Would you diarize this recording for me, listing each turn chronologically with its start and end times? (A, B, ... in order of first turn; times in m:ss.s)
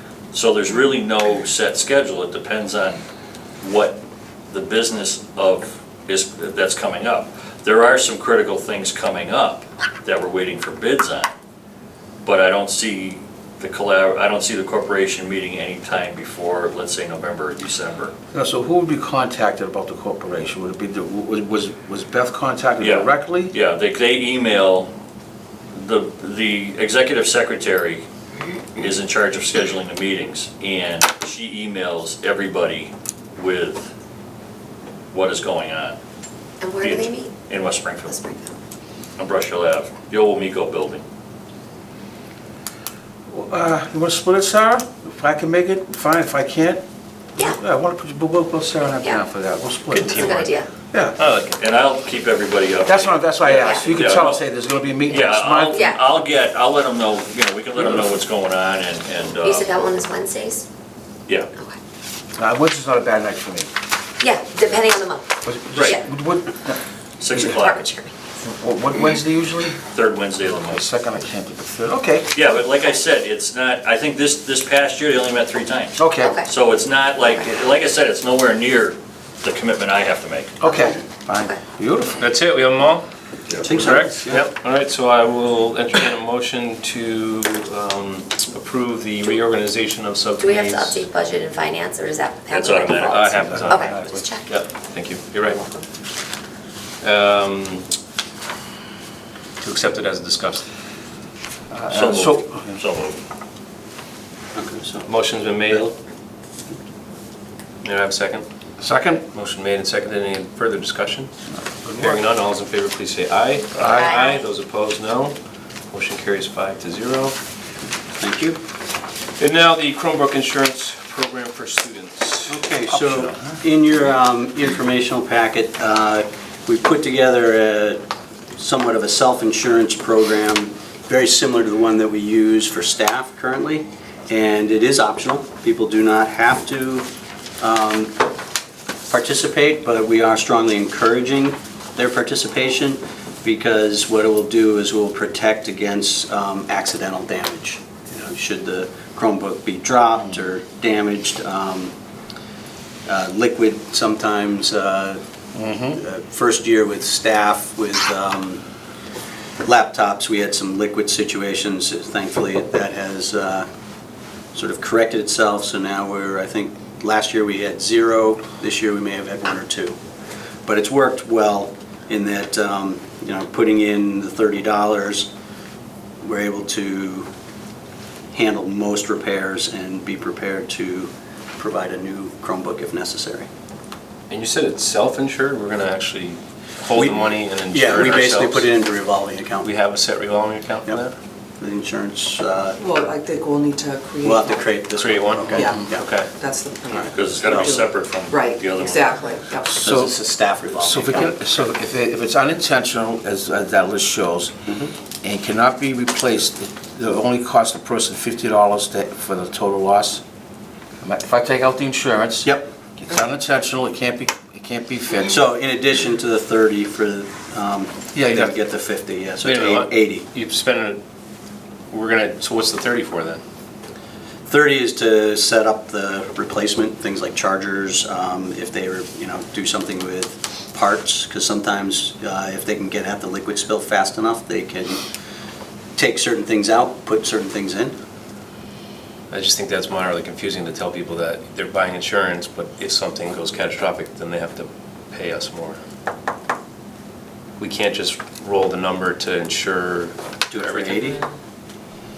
0:00.3-0:03.0 A
0:03.6-0:04.0 A
0:04.5-0:11.3 A
0:12.2-0:18.1 A
0:18.3-0:23.5 B
0:22.8-0:24.9 A
0:25.7-0:28.0 A
0:28.8-0:33.9 A
0:35.1-0:36.0 A
0:36.6-0:37.4 C
0:36.8-0:38.2 A
0:38.0-0:38.5 C
0:39.2-0:41.0 A
0:43.3-0:46.8 B
0:47.4-0:50.4 B
0:49.9-0:50.7 C
0:49.9-0:50.5 D
0:50.9-0:51.2 B
0:51.2-0:51.6 D
0:51.6-0:54.4 A
0:52.8-0:55.9 B
0:53.6-0:53.8 C
0:55.1-0:59.7 A
0:55.7-0:56.0 C
0:59.4-1:00.6 C
1:02.4-1:03.7 B
1:04.2-1:06.0 C
1:05.4-1:06.8 B
1:05.7-1:06.0 A
1:07.2-1:07.8 A
1:07.4-1:08.1 C
1:08.4-1:09.8 B
1:09.9-1:10.9 A
1:10.6-1:12.3 B
1:12.3-1:20.5 A
1:16.0-1:16.4 B
1:16.2-1:16.5 C
1:20.6-1:22.2 B
1:20.6-1:21.6 C
1:22.2-1:23.0 D
1:23.6-1:24.5 E
1:23.7-1:31.0 D
1:30.4-1:34.6 C
1:32.5-1:33.4 A
1:33.1-1:35.6 D
1:33.4-1:34.2 B
1:35.4-1:35.9 C
1:37.0-1:37.9 D
1:39.6-1:40.6 D
1:41.7-1:42.8 B
1:41.9-1:43.2 A
1:44.5-1:45.9 E
1:45.0-1:45.9 D
1:47.8-1:48.4 D
1:48.8-1:49.2 B
1:49.3-1:51.3 D
1:51.6-1:52.2 B
1:51.9-1:55.3 D
1:53.7-1:54.2 B
1:53.8-1:54.4 C
1:55.9-1:57.4 D
1:58.2-1:58.6 E
1:59.4-2:02.6 D
2:02.5-2:08.0 E
2:02.9-2:03.6 B
2:08.6-2:17.1 E
2:17.6-2:18.1 E
2:19.1-2:31.9 E
2:33.1-2:35.2 E
2:35.5-2:36.0 B
2:35.9-2:38.6 E
2:39.6-2:43.7 E
2:44.5-2:50.0 E
2:50.6-2:55.3 E
2:56.2-2:57.3 E
2:58.3-3:03.5 E
3:04.3-3:08.7 D
3:06.9-3:09.7 E
3:09.6-3:11.1 D
3:11.6-3:12.8 E
3:12.8-3:14.8 F
3:14.2-3:16.1 E
3:14.9-3:16.3 D
3:15.5-3:19.8 F
3:16.9-3:17.7 E
3:17.1-3:19.2 A
3:19.7-3:21.3 E
3:19.7-3:24.5 B
3:25.2-3:30.2 B
3:31.0-3:35.4 B
3:32.4-3:32.7 E
3:35.3-3:40.2 E
3:38.1-3:38.5 B
3:39.4-3:41.0 D
3:41.9-3:43.4 D
3:44.5-3:55.0 E
3:56.0-3:57.9 E
3:59.3-4:05.8 D
4:07.6-4:11.1 D
4:10.5-4:11.2 E